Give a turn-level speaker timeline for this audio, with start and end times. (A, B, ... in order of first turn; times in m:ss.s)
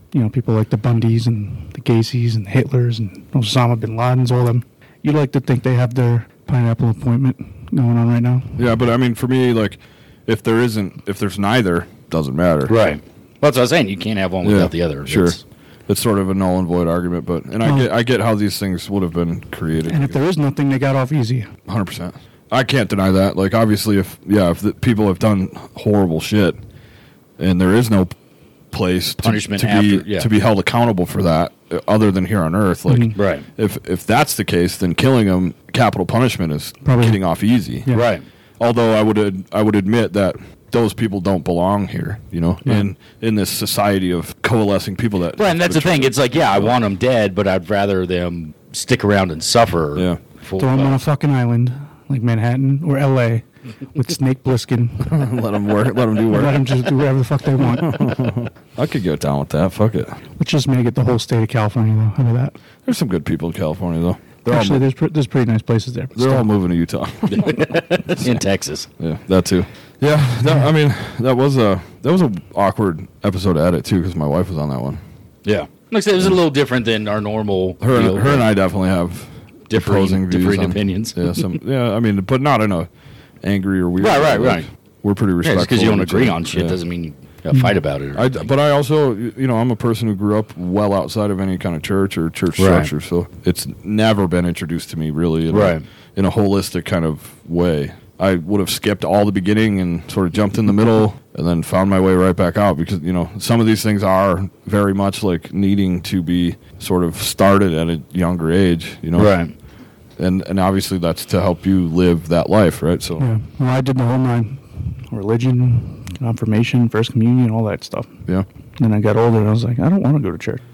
0:00.1-0:08.7 A
0:08.6-0:12.8 B
0:12.7-0:15.4 C
0:14.4-0:15.4 B
0:15.9-0:20.2 B
0:17.6-0:17.9 A
0:19.9-0:21.5 A
0:21.7-0:26.6 B
0:27.4-0:28.2 B
0:28.7-0:37.9 B
0:29.2-0:30.3 C
0:32.9-0:33.2 A
0:33.1-0:33.5 C
0:36.8-0:37.2 A
0:37.9-0:38.2 C
0:38.6-0:46.8 B
0:45.4-0:51.0 C
0:50.6-0:55.3 A
0:55.0-0:56.8 B
0:56.3-0:58.3 A
0:57.7-1:00.2 B
1:00.4-1:02.6 A
1:02.8-1:04.8 B
1:04.5-1:06.5 A
1:06.2-1:08.3 B
1:07.3-1:08.9 C
1:09.0-1:15.0 B
1:15.4-1:18.5 C
1:17.8-1:22.9 B
1:19.7-1:21.4 C
1:23.4-1:26.8 B
1:24.0-1:24.7 C
1:25.4-1:28.5 C
1:28.1-1:49.3 B
1:32.6-1:32.9 C
1:35.5-1:35.8 C
1:49.2-1:49.5 C
1:50.2-1:53.2 B
1:53.2-1:58.1 A
1:58.8-2:00.6 A